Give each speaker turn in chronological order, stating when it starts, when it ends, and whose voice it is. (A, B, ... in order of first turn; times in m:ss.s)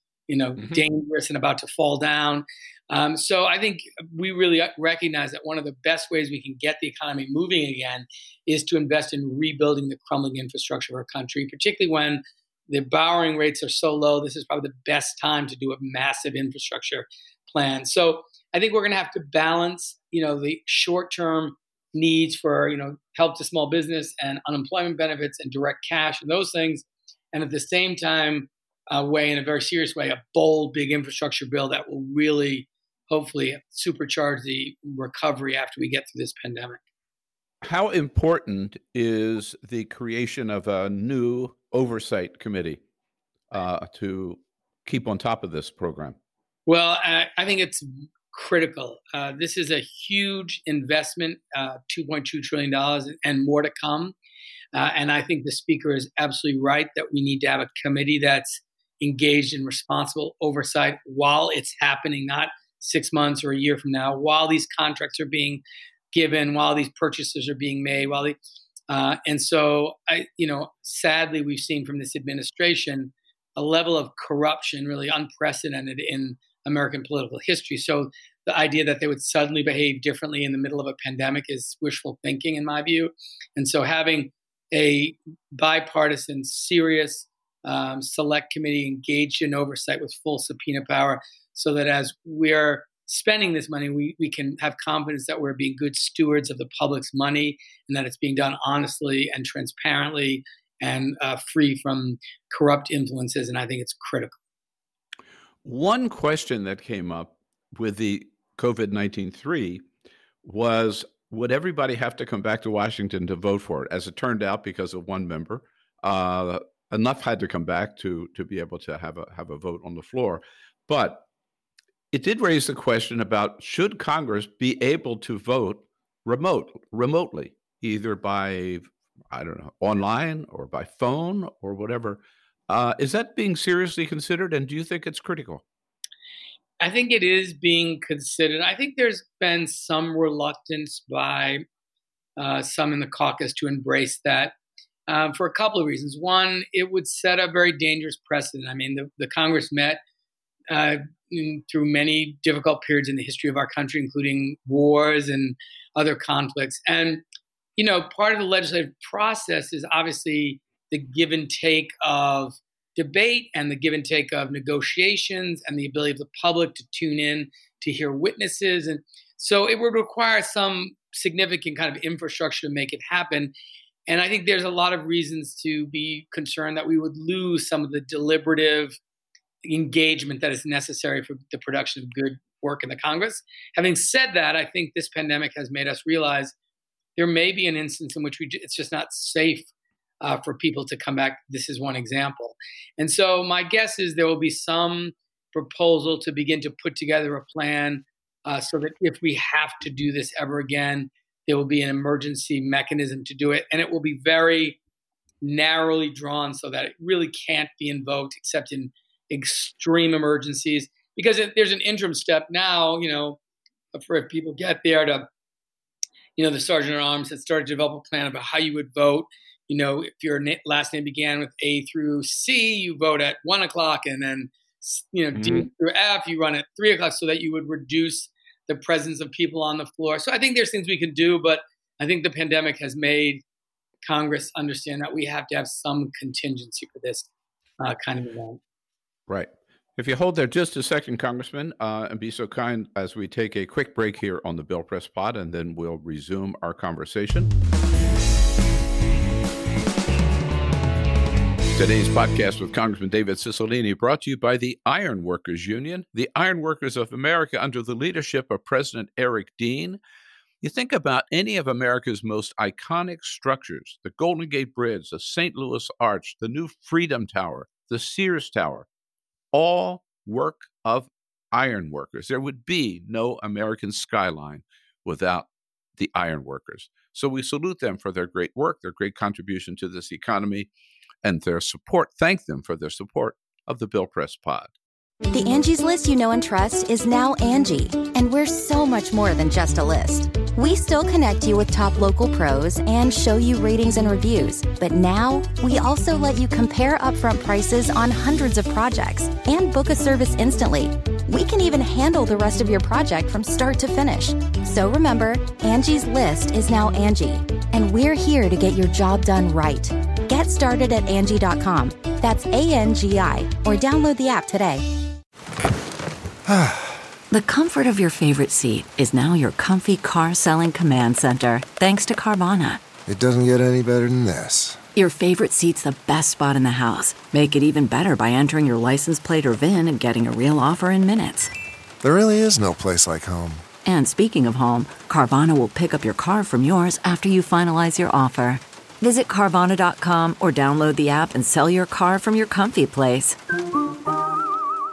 0:00.3-0:36.8 A
0:37.6-0:42.8 B
0:43.5-0:46.2 B
0:46.7-0:54.2 A
0:54.7-1:08.4 A
1:08.9-1:44.4 A
1:45.6-1:49.8 B
1:50.4-2:01.2 B
2:02.1-2:15.6 B
2:16.8-2:21.6 A
2:22.4-2:24.5 A
2:25.1-2:30.0 A
2:30.7-2:37.2 A
2:37.8-2:53.5 A
2:54.1-2:59.0 A
2:59.7-3:06.5 A
3:07.2-3:09.7 A
3:10.2-3:24.8 A
3:25.4-3:33.4 A
3:33.9-3:35.3 A
3:36.4-3:53.4 A
3:45.4-3:45.7 B
3:54.0-3:57.3 A
3:57.8-3:58.6 A
3:59.3-4:07.5 B
4:11.7-4:20.0 B
4:20.6-4:28.9 B
4:29.5-4:40.7 B
4:41.2-4:44.7 B
4:45.3-5:14.9 C
5:16.5-5:17.0 D
5:17.3-5:22.8 E
5:23.1-5:24.8 D
5:25.0-5:31.5 E
5:32.0-5:33.6 D
5:33.8-5:43.4 E